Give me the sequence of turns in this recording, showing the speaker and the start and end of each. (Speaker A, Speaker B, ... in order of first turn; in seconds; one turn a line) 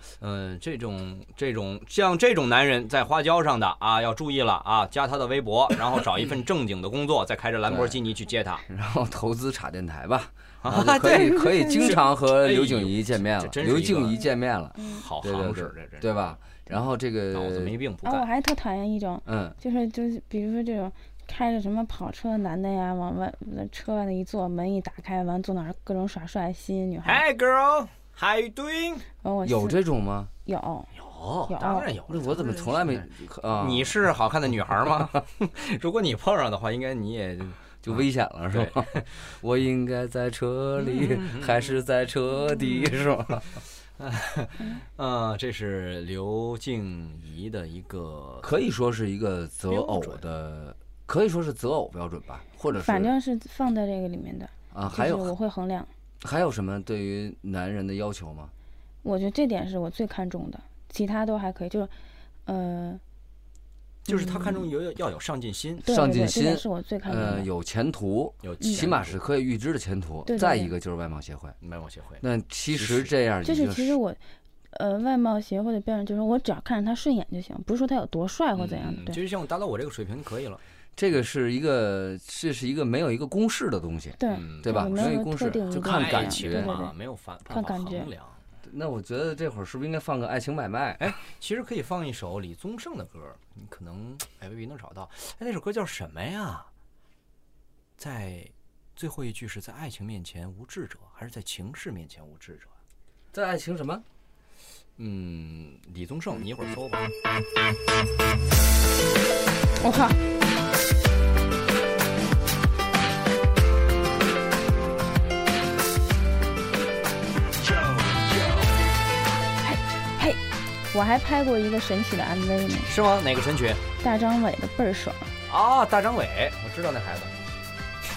Speaker A: 0.2-8.6
Speaker B: 7.7-8.0
Speaker B: 8.7-17.7
Speaker A: 10.6-14.3
Speaker C: 11.2-12.0
Speaker C: 14.8-15.0
Speaker A: 14.8-16.6
Speaker A: 17.3-18.3
Speaker C: 18.1-27.2
Speaker B: 19.2-19.6
Speaker A: 27.1-29.1
Speaker C: 29.2-29.8
Speaker B: 29.4-30.3
Speaker C: 30.4-30.9
Speaker A: 30.9-39.0
Speaker C: 31.5-31.9
Speaker B: 32.1-34.0
Speaker B: 37.8-43.5
Speaker A: 40.8-41.8
Speaker A: 42.6-43.0
Speaker A: 44.0-48.6
Speaker B: 48.4-53.1
Speaker A: 49.7-50.2
Speaker C: 52.7-55.9
Speaker B: 54.7-55.3
Speaker B: 56.2-58.5
Speaker C: 59.0-61.9
Speaker C: 62.5-63.0
Speaker A: 64.1-65.9
Speaker C: 64.1-64.7
Speaker C: 65.8-67.5
Speaker B: 65.9-71.5
Speaker A: 68.4-69.2
Speaker C: 68.6-68.9
Speaker C: 70.3-70.7
Speaker A: 71.6-73.1
Speaker B: 72.2-74.0
Speaker C: 73.5-74.2
Speaker C: 74.7-79.2
Speaker A: 78.5-80.6
Speaker B: 81.0-86.7
Speaker C: 84.2-86.9
Speaker A: 84.3-85.2
Speaker A: 85.7-88.4
Speaker C: 87.5-88.1
Speaker B: 88.6-91.1
Speaker A: 91.0-96.7
Speaker A: 98.0-102.7
Speaker B: 103.3-104.0
Speaker A: 105.0-107.1
Speaker C: 109.8-110.2
Speaker C: 119.6-120.4
Speaker C: 120.9-122.9
Speaker A: 122.9-123.8
Speaker C: 124.0-125.3
Speaker A: 125.5-127.3